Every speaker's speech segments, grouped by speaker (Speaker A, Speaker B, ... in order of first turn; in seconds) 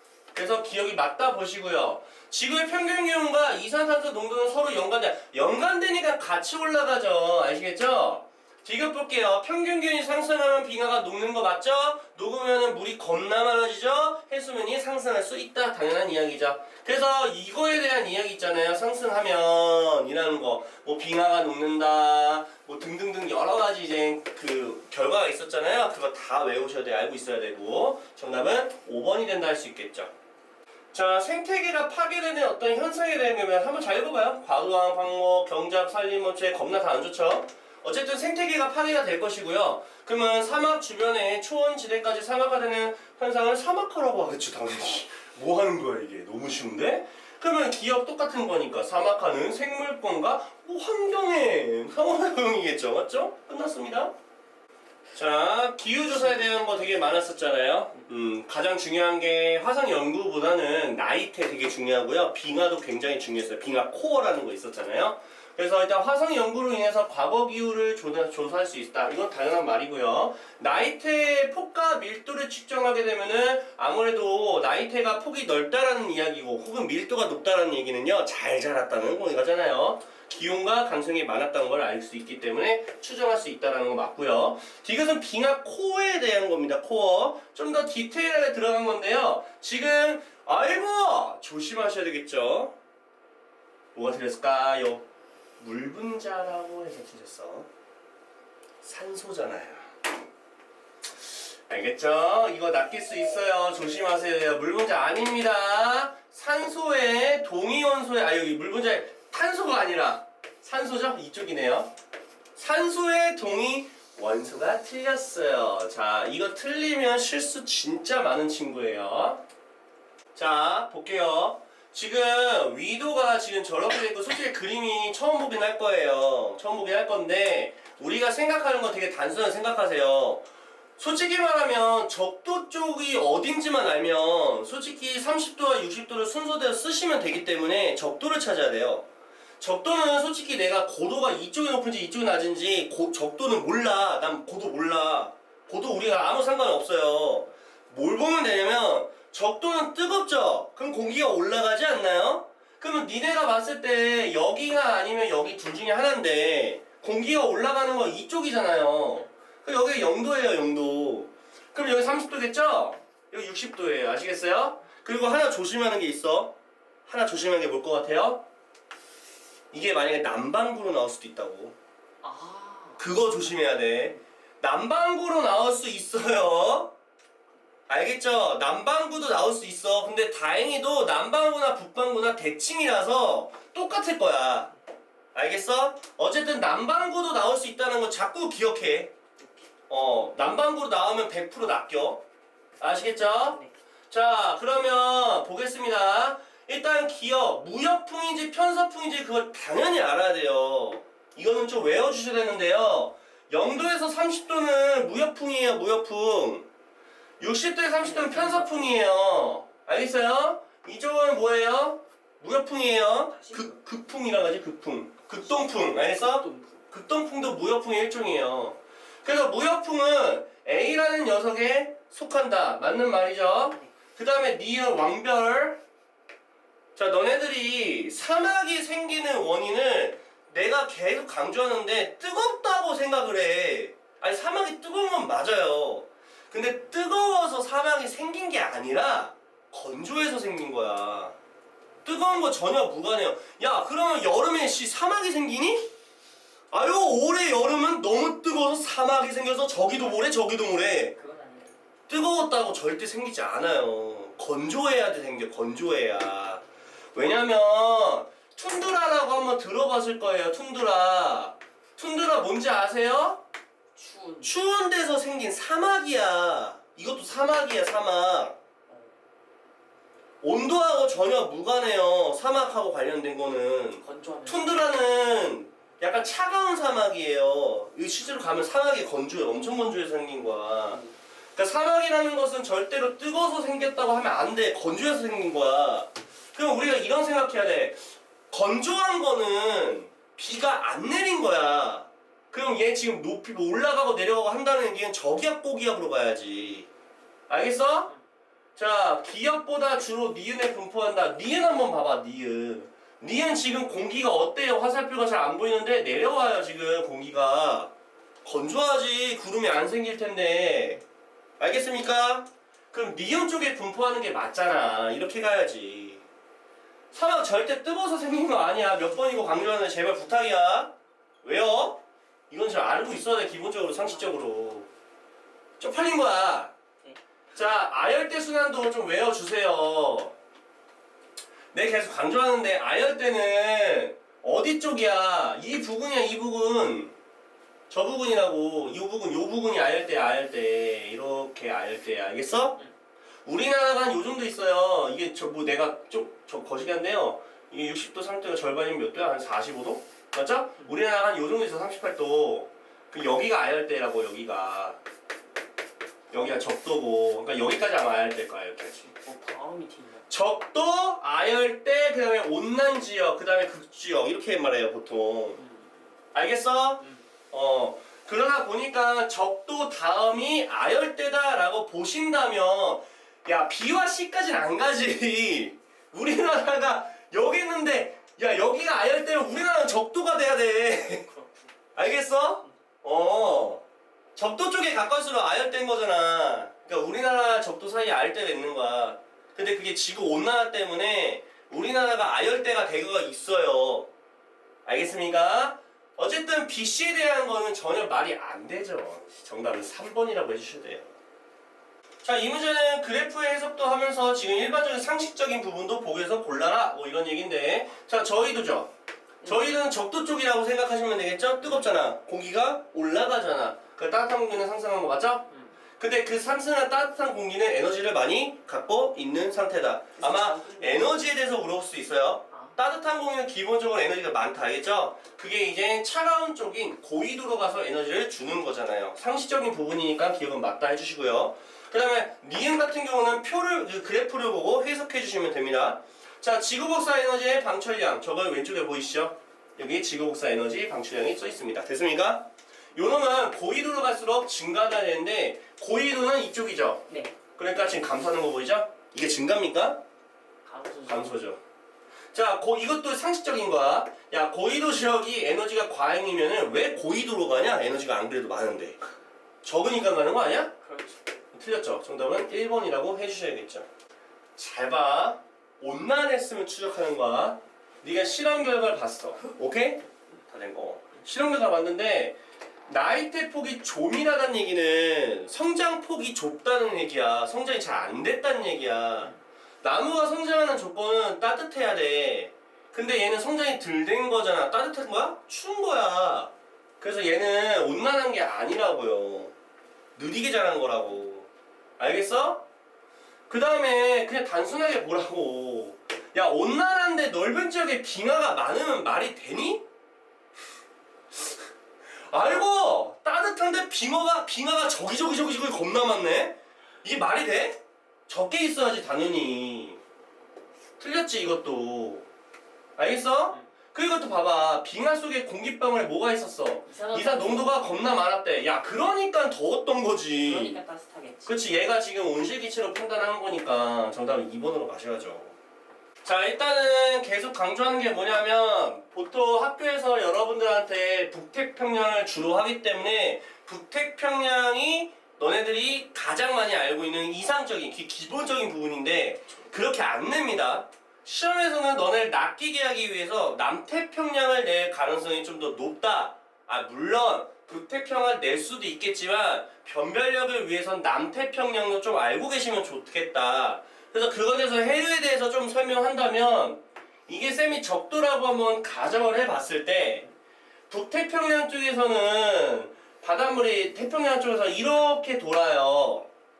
Speaker A: 0.3-30.1, 30.9-54.1, 55.1-92.7, 93.9-95.0, 95.6-97.7, 98.8-99.9, 101.7-111.9, 112.5-119.4, 120.3-130.4, 131.0-139.0, 139.6-166.5, 167.1-168.4, 169.7-171.8, 173.0-176.9, 177.9-184.7, 185.3-189.1, 189.9-192.2, 192.8-206.7, 207.4-225.8, 226.9-241.3, 242.0-245.9, 246.7-251.1, 252.1-256.6, 257.1-263.4, 264.4-268.6, 270.4-281.0, 281.6-296.9, 297.5-298.1, 298.8-307.9, 308.4-311.0, 311.6-316.2, 317.1-324.9, 325.8-326.7, 327.5-330.3, 331.7-337.1, 337.9-342.8, 343.4-355.0, 356.3-359.0, 360.3-365.6, 366.3-381.3, 381.9-383.8, 384.4-394.1, 394.9-401.1, 402.2-408.9, 409.4-415.5, 416.0-447.0, 447.6-450.0, 451.1-451.6, 452.3-459.0, 459.6-460.7, 461.5-463.9, 464.6-472.4, 472.9-489.5, 490.1-492.6, 493.5-499.8, 502.3-510.0, 511.0-512.2, 513.0-520.8, 521.5-525.5, 526.2-560.2, 560.9-566.3
Speaker B: 172.2-173.0, 189.4-189.6, 208.0-209.0, 213.4-213.7, 215.5-216.8, 251.1-251.7, 263.9-264.5, 268.9-269.1, 274.0-274.9, 359.0-360.3, 365.6-366.0, 381.2-381.7, 409.4-409.7, 420.2-421.2, 447.1-447.3, 450.6-451.4, 460.8-461.2, 516.9-518.1, 520.4-521.6